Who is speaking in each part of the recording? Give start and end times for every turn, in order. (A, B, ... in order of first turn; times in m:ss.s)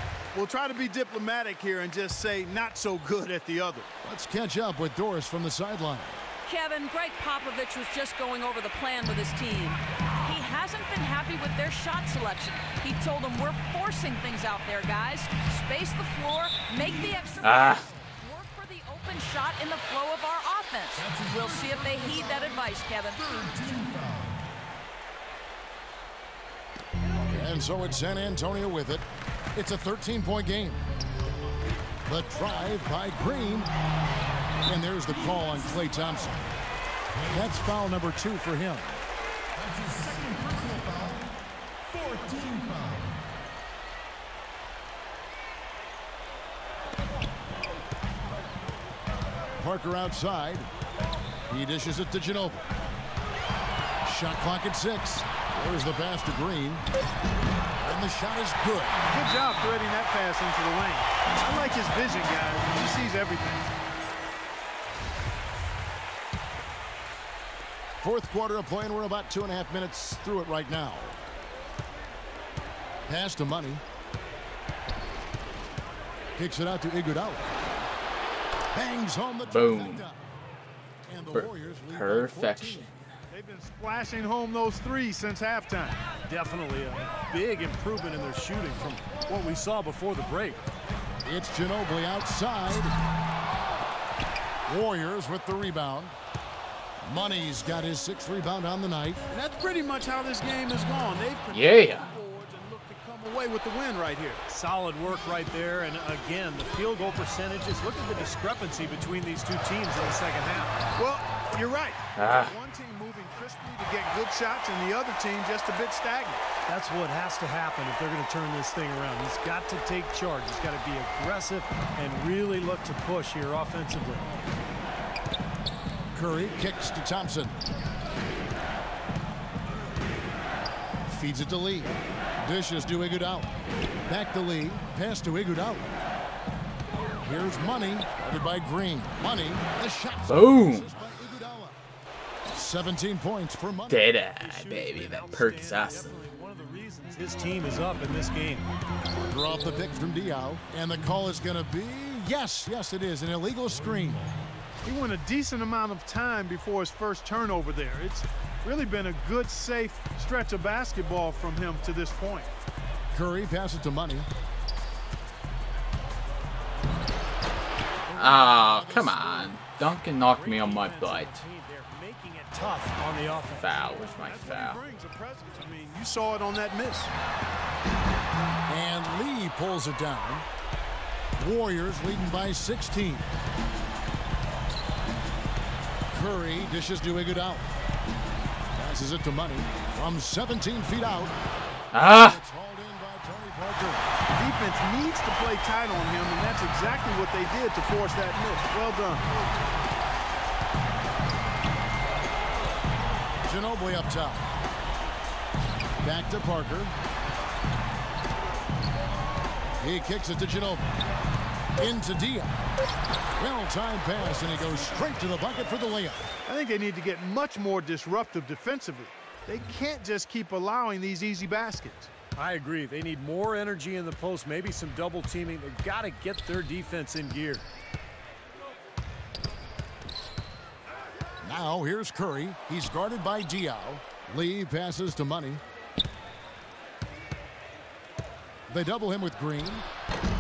0:00.3-0:03.9 A
0:04.0-0:06.2 B
0:06.4-0:23.3 C
0:17.4-0:17.9 D
0:21.0-0:22.0 E
0:23.2-0:24.4 E
0:27.3-0:30.8 B
0:32.1-0:33.7 B
0:34.6-0:36.5 B
0:37.3-0:39.0 B
0:39.6-0:41.3 E
0:41.9-0:43.2 E
0:49.6-0:50.7 B
0:51.5-0:52.7 B
0:54.0-0:56.8 B
0:57.8-0:59.0 B
0:59.1-1:03.7 A
1:08.0-1:11.2 B
1:13.1-1:13.8 B
1:16.4-1:17.5 B
1:18.7-1:20.2 B
1:19.5-1:20.0 D
1:21.1-1:22.9 B
1:21.3-1:22.9 D
1:23.3-1:26.0 A
1:26.3-1:30.6 F
1:31.2-1:33.0 B
1:34.7-1:36.2 B
1:37.0-1:39.2 B
1:39.3-1:44.4 A
1:41.5-1:42.1 D
1:44.5-1:50.8 F
1:51.0-1:56.4 A
1:52.2-1:52.5 D
1:56.7-2:04.3 F
2:06.1-2:07.6 B
2:11.1-2:13.5 B
2:14.1-2:15.9 B
2:17.2-2:21.8 B
2:20.3-2:20.9 D
2:22.5-2:24.1 B
2:23.9-2:26.1 D
2:24.4-2:28.7 F
2:29.3-2:34.3 B
2:34.8-2:42.5 A
2:43.1-2:44.3 B
2:48.1-2:49.6 B
2:48.2-2:51.4 D
2:50.3-2:53.9 F
2:53.6-2:54.8 D
2:54.1-2:57.1 A
2:58.7-3:00.5 B
3:01.4-3:03.3 B
3:06.1-3:07.7 B
3:08.8-3:11.4 B
3:11.9-3:12.4 D
3:12.0-3:14.1 B
3:14.4-3:19.3 A
3:23.4-3:24.5 B
3:26.0-3:26.9 B
3:29.8-3:30.9 B
3:31.8-3:32.5 B
3:33.4-3:36.3 B
3:36.5-3:42.1 A
3:42.4-3:47.6 F
3:51.4-3:55.6 B
3:58.7-3:59.8 B